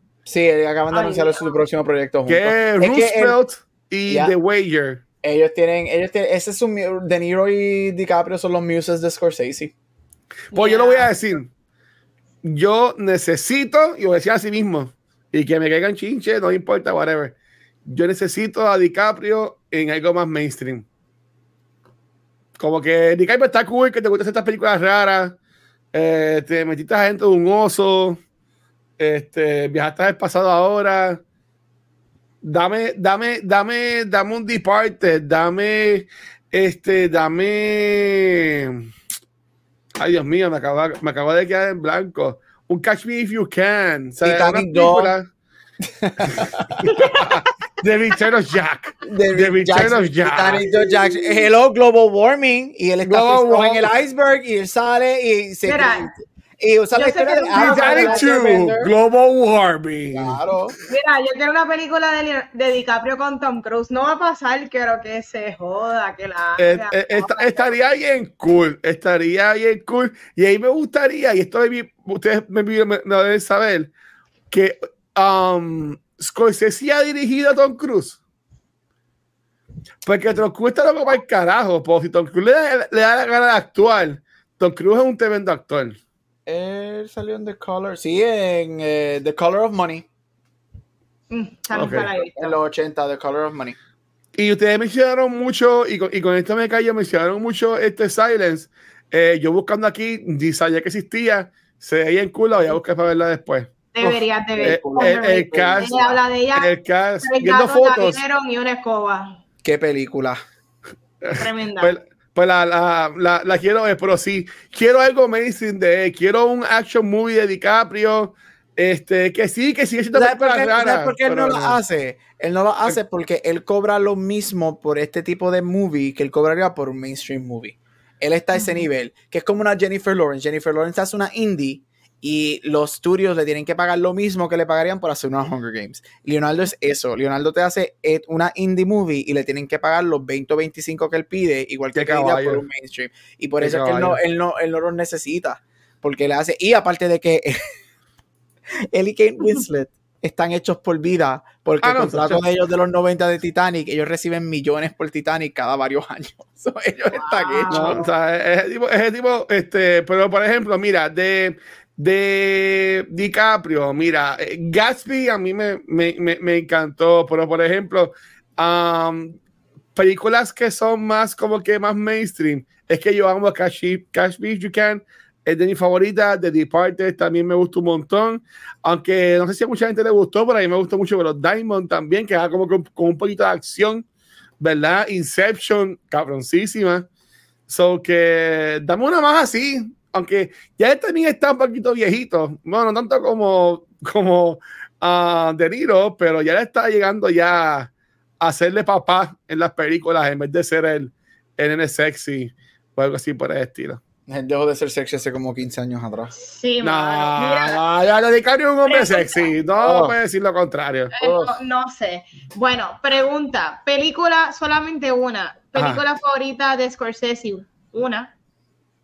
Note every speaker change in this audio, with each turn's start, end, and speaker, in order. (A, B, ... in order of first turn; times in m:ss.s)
0:00.2-0:03.4 A
0:00.9-0:01.6 B
0:02.3-0:05.0 C
0:04.1-0:04.3 A
0:05.2-0:09.7 A
0:10.5-0:11.1 B
0:10.5-0:11.5 C
0:12.4-0:17.3 C
0:17.8-0:20.8 C
0:22.6-0:25.4 C
0:25.9-0:28.2 C
0:29.0-0:31.2 C
0:32.4-0:38.9 C
0:40.0-0:45.3 C
0:44.2-0:45.1 A
0:45.8-0:46.8 A
0:46.3-0:50.6 C
0:46.8-0:47.5 B
0:49.0-0:58.9 A
0:50.5-0:51.4 B
0:53.0-0:53.9 C
0:55.6-0:56.1 B
0:56.9-0:58.3 B
0:57.5-1:00.4 C
1:00.1-1:00.7 A
1:00.9-1:07.7 B
1:06.6-1:13.9 C
1:14.5-1:18.2 C
1:20.0-1:26.0 C
1:26.4-1:30.1 A
1:31.3-1:32.6 B
1:31.7-1:32.1 C
1:32.3-1:33.8 A
1:34.4-1:46.0 C
1:43.9-1:46.7 B
1:44.6-1:46.2 A
1:46.5-1:48.2 C
1:47.2-1:49.4 B
1:49.6-1:50.4 A
1:51.2-2:01.8 C
1:51.4-1:52.0 B
2:00.1-2:27.6 A
2:08.5-2:08.8 B
2:21.9-2:22.6 C
2:23.6-2:24.2 C
2:28.9-2:38.1 A
2:31.8-2:32.4 C
2:37.1-2:38.1 B
2:37.7-2:49.4 C
2:50.0-3:04.0 C
3:04.6-3:07.1 C
3:07.7-3:24.0 C
3:24.3-3:26.3 A
3:26.3-3:27.8 B
3:26.8-3:31.1 C
3:28.9-3:29.6 B
3:29.8-3:30.2 A
3:31.1-3:38.3 B
3:31.2-3:31.5 A
3:35.8-3:36.0 C